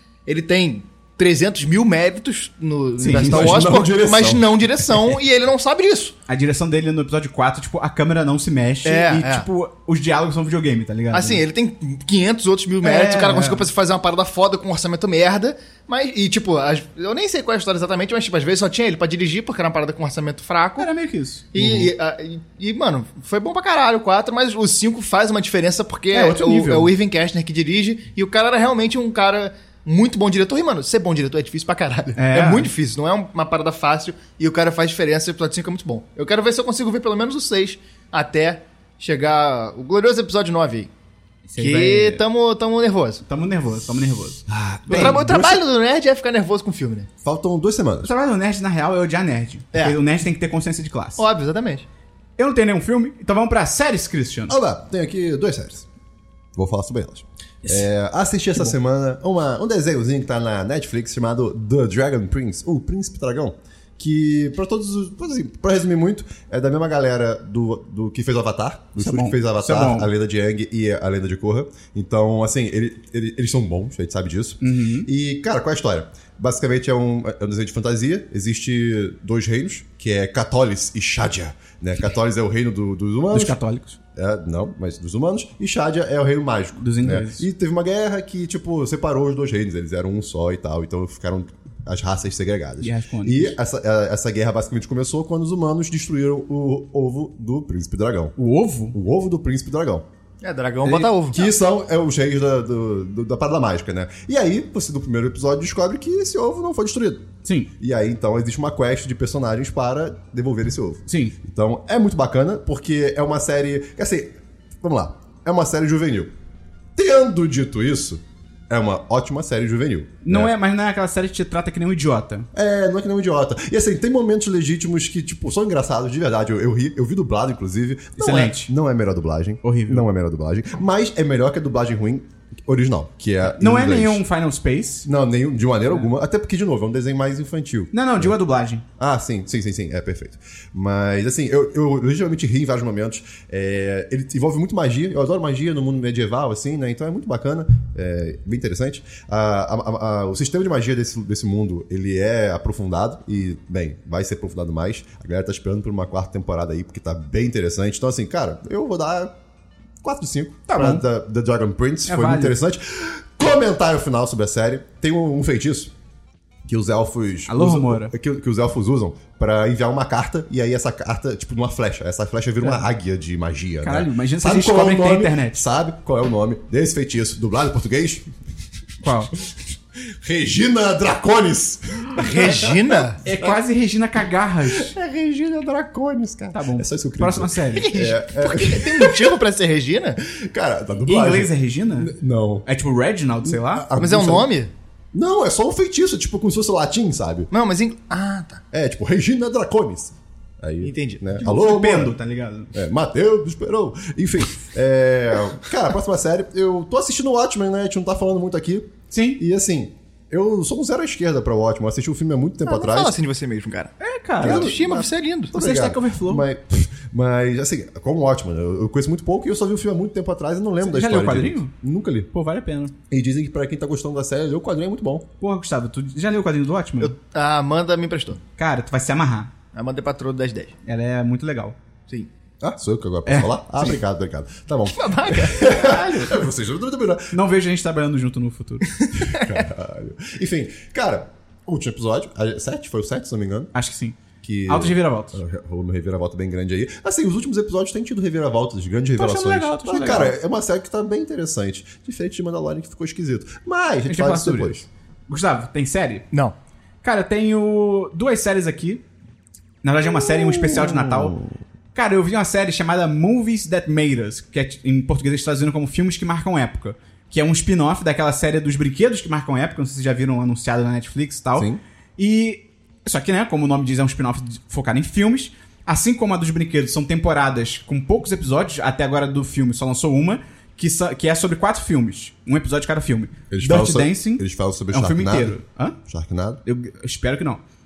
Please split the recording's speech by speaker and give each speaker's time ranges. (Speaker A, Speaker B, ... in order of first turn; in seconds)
Speaker A: 0.3-6.1, 8.8-9.5, 11.1-20.9, 21.5-40.9, 41.6-43.2, 44.9-47.1, 51.2-51.9, 100.4-101.5, 182.2-183.2, 187.7-190.2, 194.0-194.7, 197.5-198.6, 200.8-201.2, 212.7-215.5, 227.0-228.4, 229.7-230.8, 234.9-236.0, 239.1-239.5
Speaker B: 3.0-3.6, 6.3-11.4, 12.8-13.7, 20.8-21.4, 26.1-26.9, 32.2-32.7, 41.5-42.2, 43.3-45.2, 48.0-51.2, 52.4-54.5, 69.0-70.1, 74.6-75.1, 83.3-84.0, 86.8-87.5, 92.8-93.6, 98.4-99.0, 107.5-107.7, 111.1-111.4, 120.2-122.5, 128.2-128.7, 129.6-130.1, 133.4-135.1, 137.9-138.8, 160.7-161.0, 162.1-162.6, 167.5-168.1, 173.8-175.6, 179.0-179.3, 183.2-184.9, 186.5-187.9, 191.1-192.1, 192.7-193.8, 201.4-202.7, 209.1-209.4, 214.0-214.7, 215.5-216.4, 220.8-221.7, 222.3-222.9, 225.4-227.1, 228.6-229.5, 230.9-231.8, 233.3-233.9, 235.7-236.3, 237.3-238.9, 243.7-245.4, 249.2-250.3, 254.1-256.2, 257.0-259.0, 259.8-261.4, 261.9-286.0, 286.6-287.6
Speaker C: 3.1-4.5, 21.6-21.9, 44.5-45.6, 47.2-48.1, 54.5-55.9, 56.5-83.6, 84.2-98.3, 98.9-100.1, 101.3-116.3, 117.0-120.5, 122.5-134.2, 135.1-138.4, 139.0-159.3, 160.0-165.9, 166.6-178.3, 180.2-182.8, 184.7-189.4, 190.3-192.7, 193.4-194.5, 195.1-197.5, 198.7-202.2, 202.7-213.2, 214.4-222.3, 223.1-225.3, 232.6-237.4, 239.2-243.7, 244.4-254.9, 260.0-261.6, 283.5-286.6